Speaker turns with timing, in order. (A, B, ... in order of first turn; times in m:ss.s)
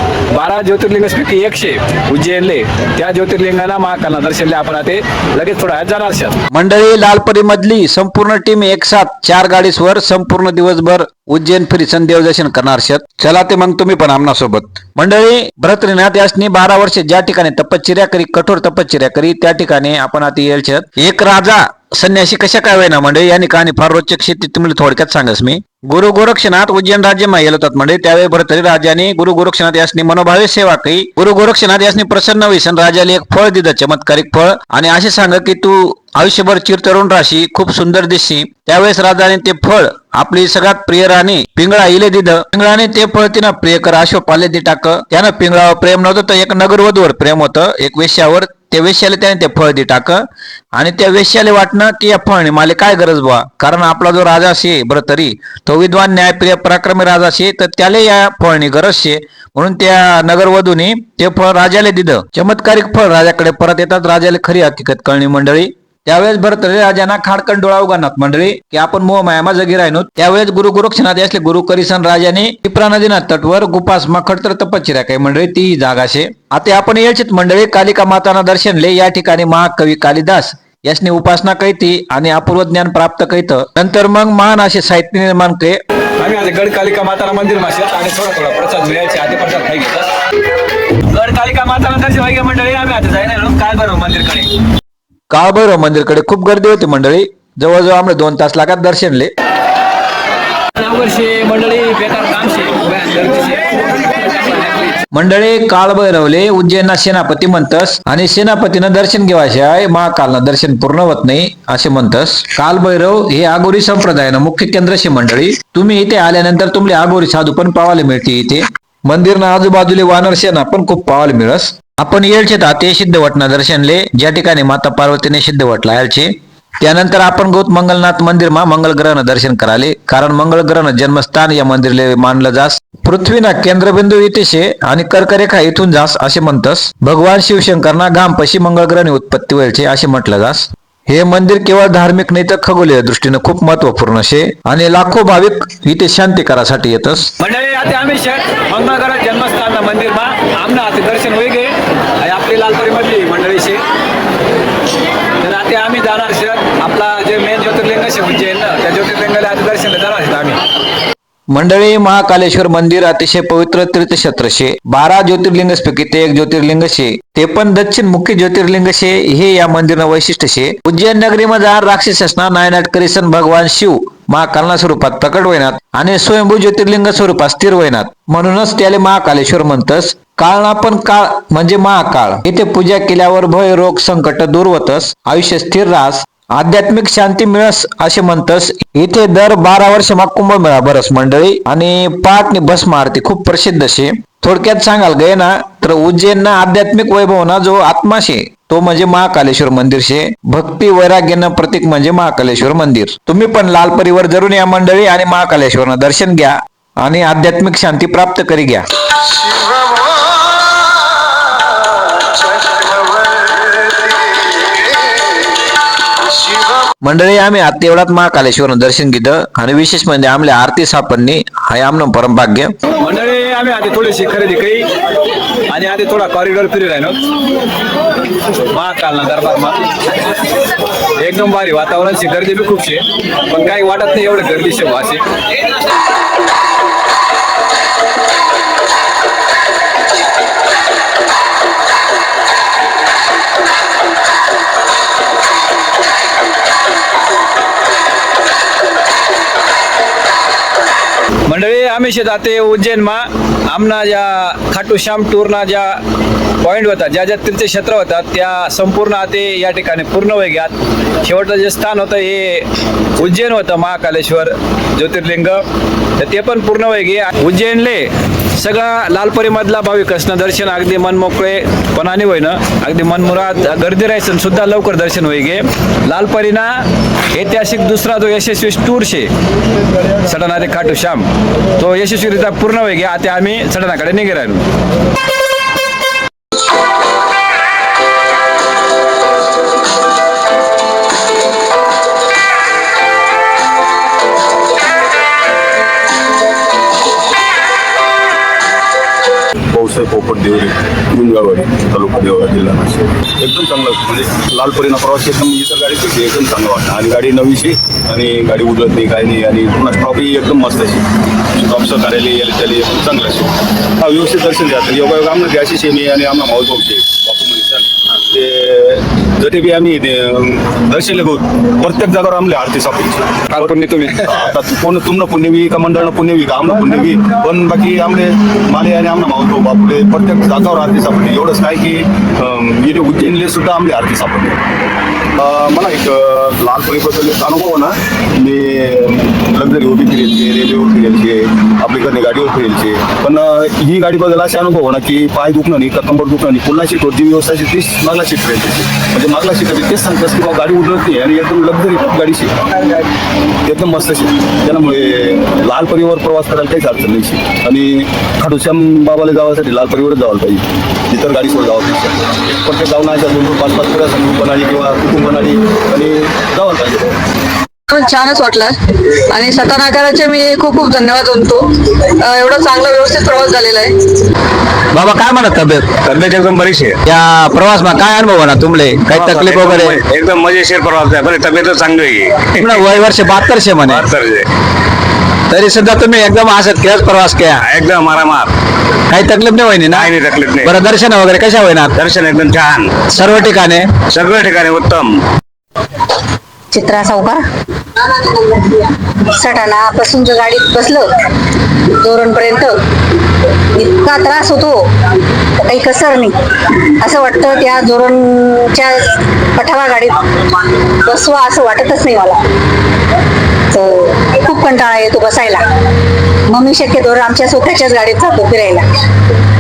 0:00.3-0:06.4 A
0:06.5-0:50.2 B
0:50.7-1:25.8 B
1:26.2-1:30.1 A
1:31.1-1:34.6 A
1:35.3-1:39.3 B
1:40.8-1:45.0 A
1:45.1-2:27.3 B
2:27.4-2:33.8 A
2:35.4-2:40.6 A
2:41.5-3:28.9 B
3:37.0-3:42.8 B
3:43.0-3:44.9 A
3:45.7-3:47.2 A
3:48.7-3:50.0 A
3:51.2-3:55.2 A
4:11.5-4:16.0 A
4:16.6-4:22.7 A
4:23.2-4:25.6 A
4:26.2-4:39.3 A
4:40.2-4:41.2 A
4:41.8-4:44.6 A
4:59.7-5:34.6 C
5:23.5-5:24.4 A
5:35.4-5:52.9 C
5:53.6-6:07.2 C
6:07.9-6:13.9 D
6:14.9-6:16.0 B
6:16.0-6:17.0 E
6:17.0-6:20.0 B
6:19.1-6:22.8 E
6:22.6-6:24.1 B
6:23.9-6:24.4 E
6:25.5-6:27.6 B
6:27.6-6:28.5 E
6:29.1-6:32.0 B
6:29.9-6:30.7 E
6:31.9-6:32.9 E
6:33.1-6:33.9 B
6:34.1-6:35.1 E
6:36.7-6:37.4 F
6:39.4-6:41.1 F
6:42.0-6:42.7 F
6:43.8-6:44.7 F
6:45.6-6:46.3 F
6:47.0-6:50.2 F
6:51.1-6:52.4 F
6:53.7-6:55.6 F
6:56.5-6:58.8 F